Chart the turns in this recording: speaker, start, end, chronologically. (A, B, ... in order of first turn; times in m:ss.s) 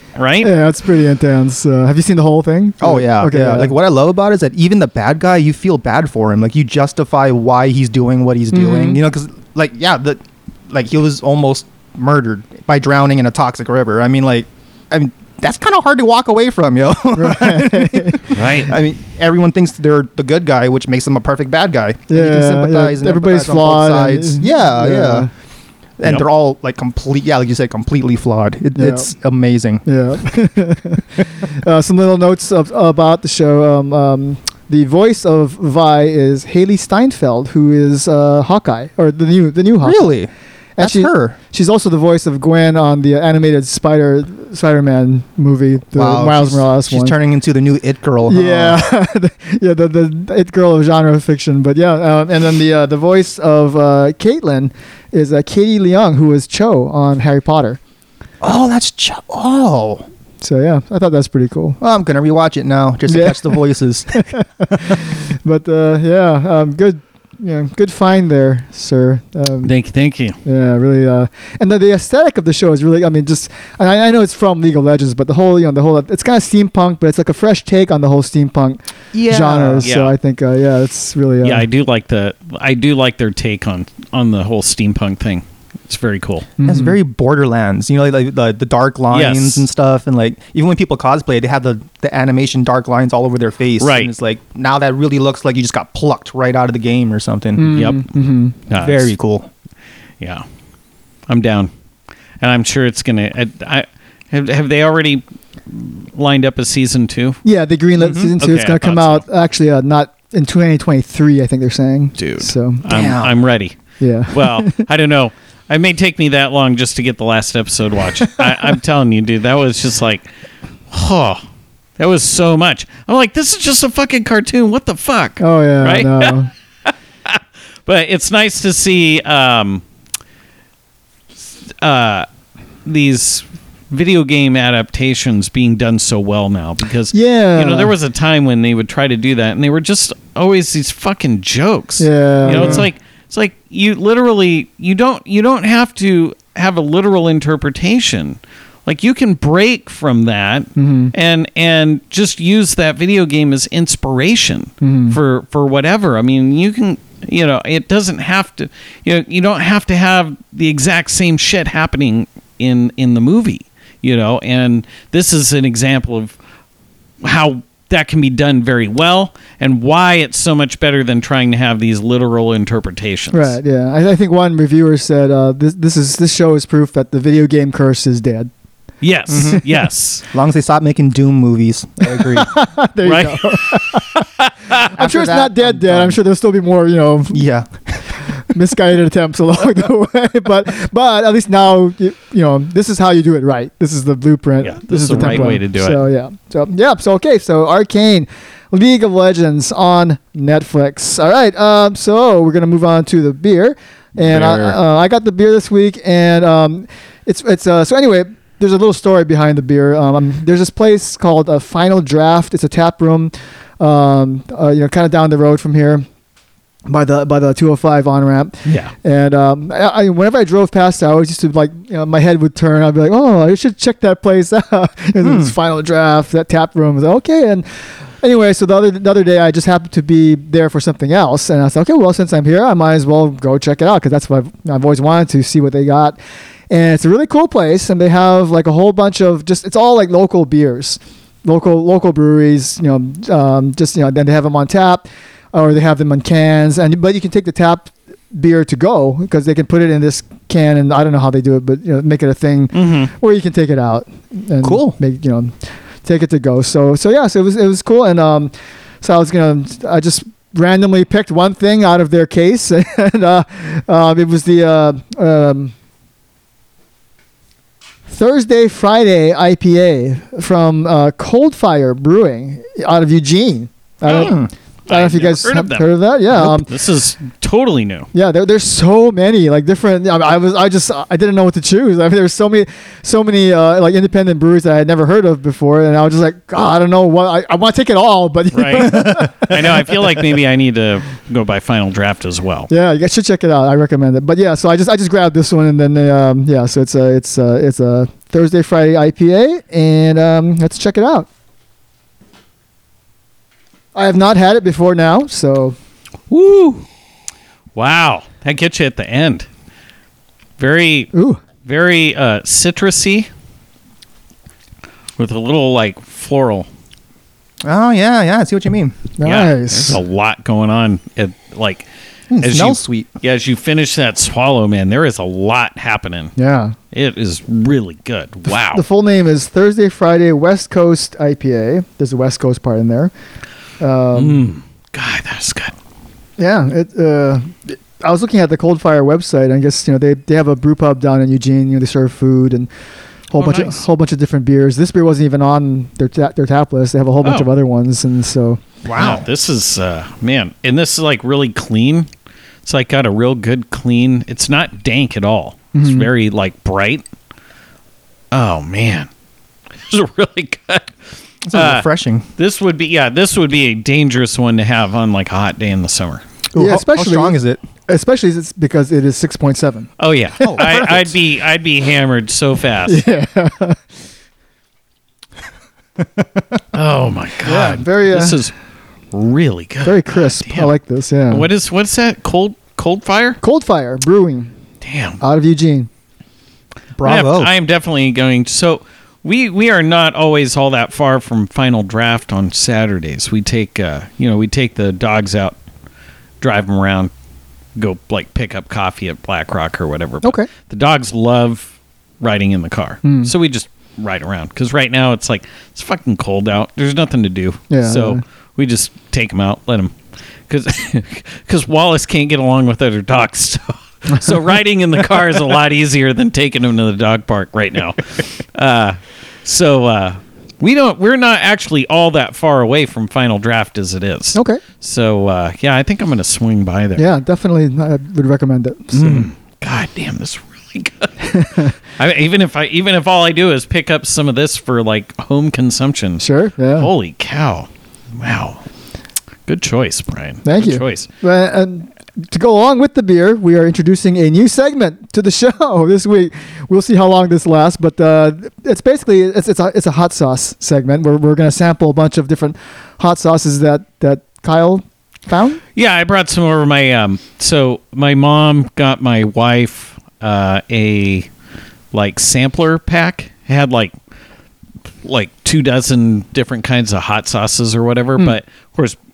0:00.2-0:00.5 A
0:00.4-0:03.7 B
0:02.8-0:25.3 C
0:08.5-0:09.0 B
0:17.1-0:18.3 B
0:18.3-0:18.7 A
0:22.1-0:25.3 B
0:26.0-0:29.8 C
0:28.8-0:29.1 B
0:29.8-0:40.2 B
0:39.8-0:41.4 C
0:40.8-0:47.2 B
0:46.0-0:48.8 C
0:48.3-0:57.8 B
0:58.4-1:00.1 C
1:00.4-1:01.8 B
1:01.8-1:04.2 C
1:03.1-1:03.6 B
1:04.1-1:09.7 B
1:09.6-1:10.4 A
1:10.4-1:21.7 B
1:19.1-1:19.9 C
1:19.8-1:20.2 A
1:21.4-1:26.5 A
1:26.6-1:27.0 B
1:26.6-1:37.8 C
1:29.1-1:29.7 A
1:33.8-1:34.1 A
1:37.6-1:38.6 B
1:37.7-1:38.1 A
1:38.7-1:39.1 A
1:38.7-1:39.5 C
1:40.2-1:40.4 A
1:41.3-1:41.7 A
1:42.4-1:47.4 A
1:47.4-1:52.8 B
1:48.0-1:48.3 C
1:48.4-1:49.2 A
1:52.2-1:53.8 A
1:52.9-1:53.4 C
1:54.0-1:54.8 B
1:54.3-2:00.2 A
2:00.9-2:01.4 A
2:02.0-2:09.8 A
2:05.4-2:06.5 B
2:11.6-2:12.3 A
2:12.8-2:46.4 A
2:17.1-2:17.9 B
2:22.0-2:22.9 B
2:22.5-2:22.8 C
2:30.8-2:31.1 B
2:34.8-2:35.2 B
2:47.2-2:53.6 A
2:53.3-2:58.5 B
2:59.0-3:00.2 A
2:59.3-2:59.6 C
3:00.3-3:02.5 C
3:02.1-3:04.2 B
3:03.0-3:04.9 A
3:05.0-3:06.2 C
3:05.0-3:07.4 B
3:07.3-3:08.4 C
3:08.4-3:36.1 B
3:14.6-3:16.0 A
3:24.2-3:24.8 A
3:36.9-3:47.6 B
3:38.7-3:38.9 A
3:45.2-3:45.6 C
3:48.2-3:56.2 B
3:56.7-4:25.7 B
4:12.7-4:13.1 A
4:14.6-4:15.0 C
4:28.1-4:36.7 B
4:34.0-4:34.4 A
4:34.1-4:34.5 C
4:34.9-4:38.1 A
4:38.1-4:49.6 B
4:48.5-4:52.7 A
4:48.9-4:49.5 C
4:52.7-5:01.3 B
5:04.0-5:05.8 B
5:06.3-5:06.8 A
5:07.8-5:09.5 A
5:10.6-5:11.1 A
5:11.1-5:11.4 B
5:11.6-5:13.3 A
5:15.2-5:16.7 A
5:17.6-5:19.0 C
5:19.2-5:20.0 B
5:19.2-5:21.9 A
5:22.3-5:23.1 C
5:22.4-5:26.3 A
5:26.4-5:26.8 B
5:26.9-5:28.8 A
5:28.6-5:33.1 B
5:33.8-5:34.5 B
5:34.1-5:35.8 A
5:36.4-5:42.7 B
5:43.3-5:48.6 B
5:43.4-5:43.8 A
5:47.2-5:47.5 A
5:48.9-5:52.1 A
5:48.9-5:49.2 C
5:52.6-5:57.0 A
5:55.7-5:56.1 B
5:58.3-5:59.1 A
5:59.8-6:01.0 A
6:01.4-6:02.3 C
6:01.5-6:01.8 A
6:02.4-6:06.2 A
6:06.5-6:07.6 C
6:06.6-6:09.9 B
6:10.0-6:13.0 A
6:10.4-6:11.2 C
6:12.9-6:13.8 B
6:16.7-6:18.5 A
6:17.5-6:17.8 C
6:17.5-6:18.4 B
6:19.1-6:20.7 A
6:19.8-6:21.5 B
6:21.3-6:23.4 A
6:23.4-6:24.5 B
6:24.8-6:25.2 A
6:25.2-6:25.9 B
6:27.0-6:27.5 C
6:27.0-6:35.6 A
6:36.4-6:37.1 A
6:37.8-7:07.0 A
6:40.2-6:40.5 B
6:43.0-6:43.3 B
6:47.7-6:48.2 B
7:04.4-7:04.6 B
7:07.0-7:09.3 B
7:08.9-7:11.4 A
7:11.3-7:11.7 B
7:12.0-7:18.6 A
7:16.2-7:16.9 B
7:19.5-7:21.1 A
7:20.4-7:35.6 B
7:35.8-7:41.3 A
7:41.9-7:44.0 A
7:45.0-7:49.0 A